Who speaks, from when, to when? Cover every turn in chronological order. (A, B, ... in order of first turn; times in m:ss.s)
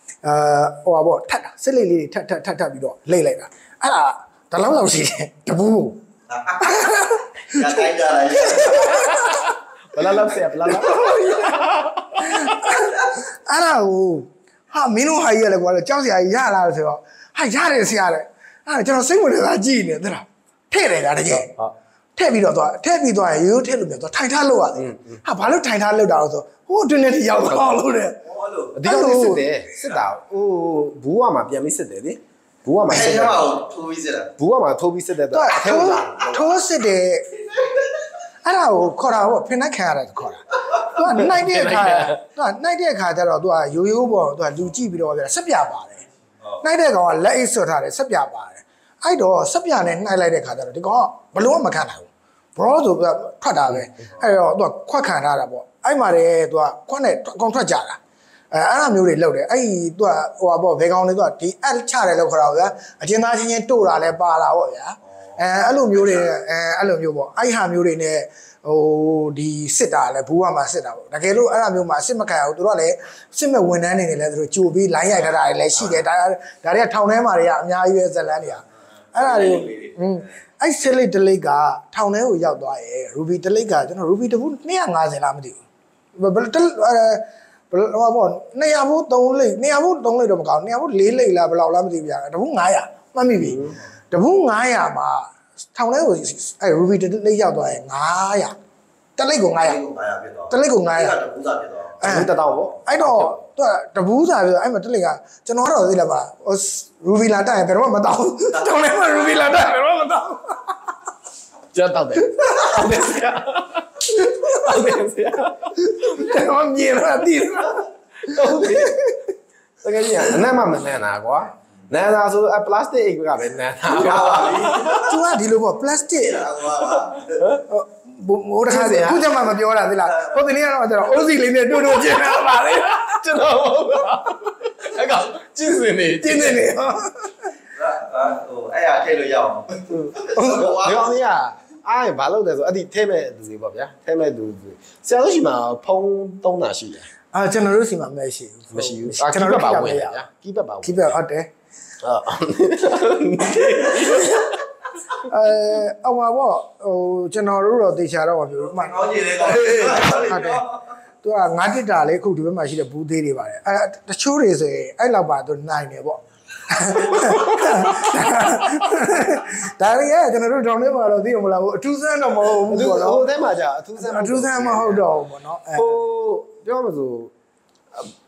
0:00.2-0:06.0 A
0:06.3-0:09.0 B
0:06.6-0:09.5 A
0:09.9-0:12.6 C
0:10.7-0:21.5 A
0:21.3-0:21.7 C
0:22.2-0:28.2 A
0:24.8-0:25.2 C
0:27.5-0:27.8 C
0:28.2-0:28.8 B
0:28.8-0:33.6 C
0:28.8-0:29.6 A
0:32.9-0:34.3 B
0:34.4-0:36.6 C
0:35.3-0:37.5 A
0:38.4-0:46.0 A
0:41.2-0:42.2 C
0:46.6-0:58.0 A
0:58.5-1:25.6 A
1:06.0-1:06.3 B
1:19.2-1:20.0 B
1:26.2-1:38.6 A
1:33.4-1:33.8 C
1:39.2-1:39.8 A
1:39.6-1:42.6 B
1:40.5-1:41.2 A
1:42.0-1:42.3 A
1:42.0-1:43.4 C
1:42.8-1:50.8 A
1:48.5-1:49.4 B
1:51.7-1:56.2 C
1:52.4-1:53.0 A
1:54.3-1:54.7 A
1:55.8-1:59.2 A
1:58.3-1:59.2 C
1:59.8-2:05.1 C
2:03.9-2:05.1 B
2:04.9-2:06.5 A
2:06.1-2:07.4 B
2:07.6-2:13.2 A
2:08.7-2:09.4 C
2:11.8-2:16.7 C
2:16.1-2:17.5 A
2:17.7-2:21.1 B
2:19.9-2:27.1 C
2:20.3-2:20.7 A
2:27.3-2:30.2 A
2:28.7-2:31.2 C
2:30.8-2:31.5 A
2:32.0-2:34.6 C
2:35.2-2:40.6 A
2:38.6-2:40.8 B
2:41.2-2:53.3 A
2:47.3-2:47.8 C
2:52.7-2:55.1 C
2:54.0-2:56.0 A
2:55.8-2:57.3 C